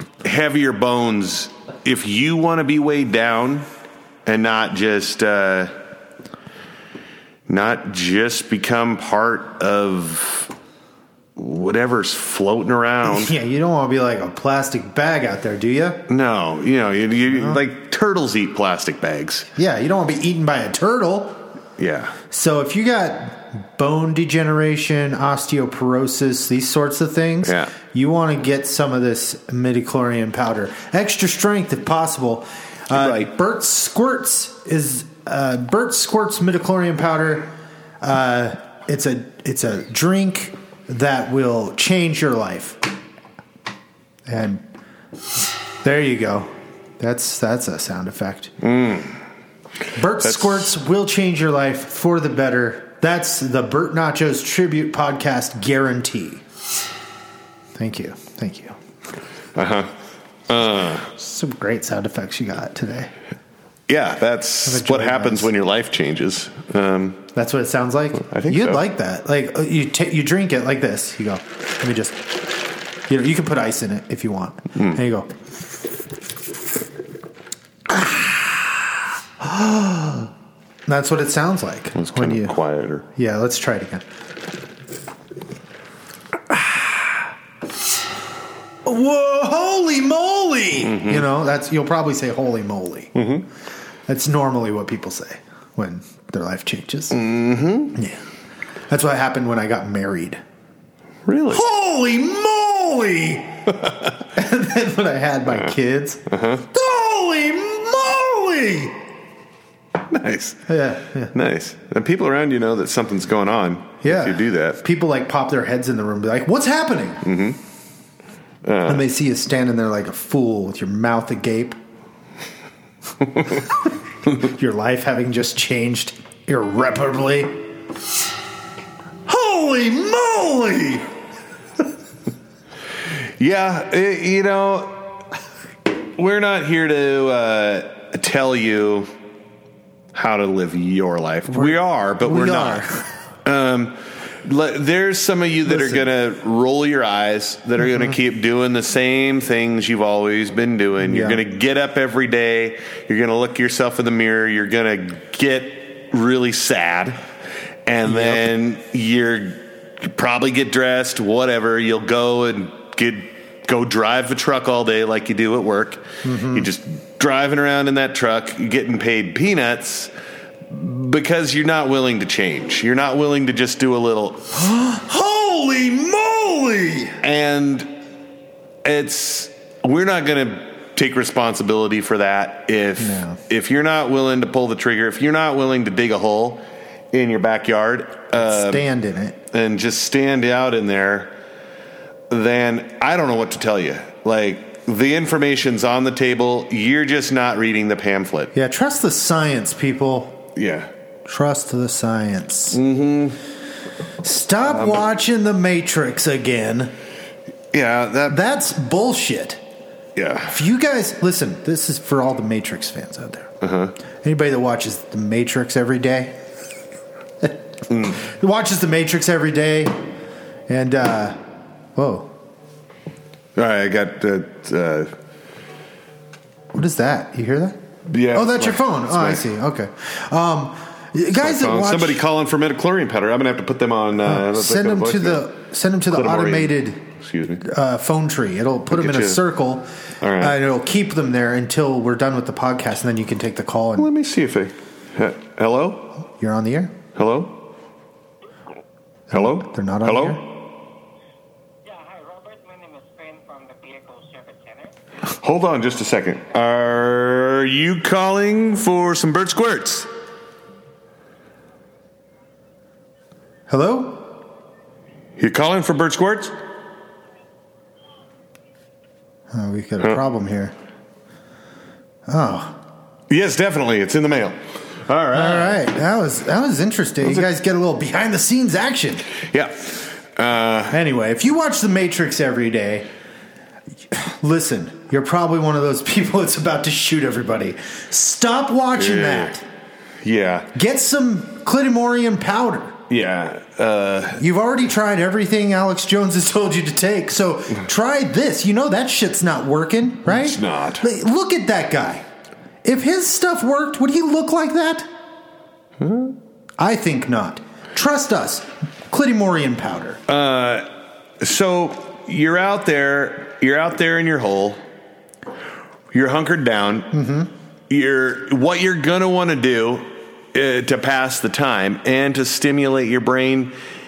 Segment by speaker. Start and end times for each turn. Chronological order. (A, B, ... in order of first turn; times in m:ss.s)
0:00.2-0:03.6 A
0:04.2-0:05.7 A
0:07.5-0:10.5 A
0:11.4-0:13.3 A
0:13.0-0:16.0 B
0:16.1-0:19.5 A
0:17.3-0:17.6 B
0:19.5-0:21.4 B
0:21.8-0:22.2 A
0:22.3-0:42.8 B
0:27.4-0:27.7 A
0:32.9-0:33.3 A
0:44.2-0:44.6 B
0:45.8-0:48.5 B
0:48.6-0:49.2 A
0:49.9-0:56.4 B
0:50.2-0:50.6 A
0:57.8-0:58.8 B
0:59.5-0:59.9 A
1:00.5-1:01.1 A
1:01.1-1:03.1 B
1:03.9-1:07.3 A
1:04.6-1:05.5 B
1:07.3-1:15.3 B
1:08.2-1:08.8 A
1:17.9-1:18.6 B
1:19.4-1:20.3 B
1:20.9-1:22.6 B
1:21.9-1:23.0 A
1:23.1-1:24.0 B
1:26.5-1:27.1 B
1:28.8-1:33.1 B
1:30.8-1:31.2 A
1:33.1-1:33.4 A
1:34.1-1:37.2 B
1:37.1-1:38.0 A
1:37.9-1:38.2 B
1:38.9-1:40.4 B
1:41.2-1:41.6 A
1:41.5-1:49.0 B
1:46.3-1:46.6 A
1:50.1-1:50.7 A
1:50.7-1:51.3 B
1:51.3-1:54.8 A
1:54.0-1:57.2 B
1:57.2-1:57.6 A
1:58.6-1:59.0 A
1:58.8-2:01.8 B
2:04.3-2:07.6 B
2:09.2-2:11.1 B
2:13.4-2:15.2 A
2:16.2-2:19.1 A
2:20.1-2:22.8 A
2:21.5-2:23.1 B
2:23.4-2:37.2 A
2:25.7-2:26.0 B
2:31.0-2:31.4 B
2:37.8-2:50.1 A
2:38.0-2:38.5 B
2:46.2-2:46.7 B
2:50.7-2:54.5 A
2:54.5-2:57.2 B
2:57.2-2:58.0 A
2:58.8-3:08.8 A
3:03.0-3:03.4 B
3:08.3-3:09.4 B
3:09.5-3:11.3 A
3:12.3-3:18.5 A
3:18.5-3:20.4 B
3:20.5-3:20.9 A
3:21.2-3:22.8 B
3:22.7-3:23.4 A
3:24.2-3:26.9 B
3:24.6-3:25.0 A
3:27.7-3:28.4 A
3:28.3-3:29.6 B
3:30.2-3:30.6 A
3:30.5-3:33.5 B
3:33.6-3:33.9 A
3:34.2-3:36.4 B
3:37.9-3:38.2 A
3:38.1-3:40.0 B
3:40.7-3:41.4 B
3:41.9-3:42.3 B
3:43.6-3:45.1 A
3:46.7-3:47.8 B
3:48.1-3:49.4 A
3:48.3-3:52.2 B
3:51.3-3:55.5 A
3:54.2-3:57.0 B
3:56.1-3:57.6 A
3:57.6-4:04.1 B
3:58.9-3:59.4 A
4:00.2-4:00.6 A
4:04.0-4:06.2 A
4:06.4-4:06.9 B
4:07.2-4:07.6 A
4:09.3-4:10.4 B
4:09.3-4:10.5 A
4:11.8-4:14.9 C
4:15.4-4:20.1 A
4:23.7-4:24.3 B
4:25.4-4:26.5 A
4:29.5-4:30.7 B
4:32.3-4:32.8 B
4:33.3-4:35.8 A
4:35.3-4:39.2 B
4:39.5-4:41.0 A
4:40.9-4:43.1 B
4:44.1-4:49.6 B
4:49.0-4:49.5 A
4:50.2-4:50.7 A
4:50.7-4:53.0 B
4:53.1-4:54.4 A
4:54.4-5:02.2 B
5:00.2-5:01.1 A
5:02.8-5:05.1 B
5:06.0-5:06.4 A
5:06.8-5:10.2 B
5:10.3-5:14.8 A
5:16.1-5:17.1 A
5:17.1-5:17.5 B
5:17.9-5:23.7 A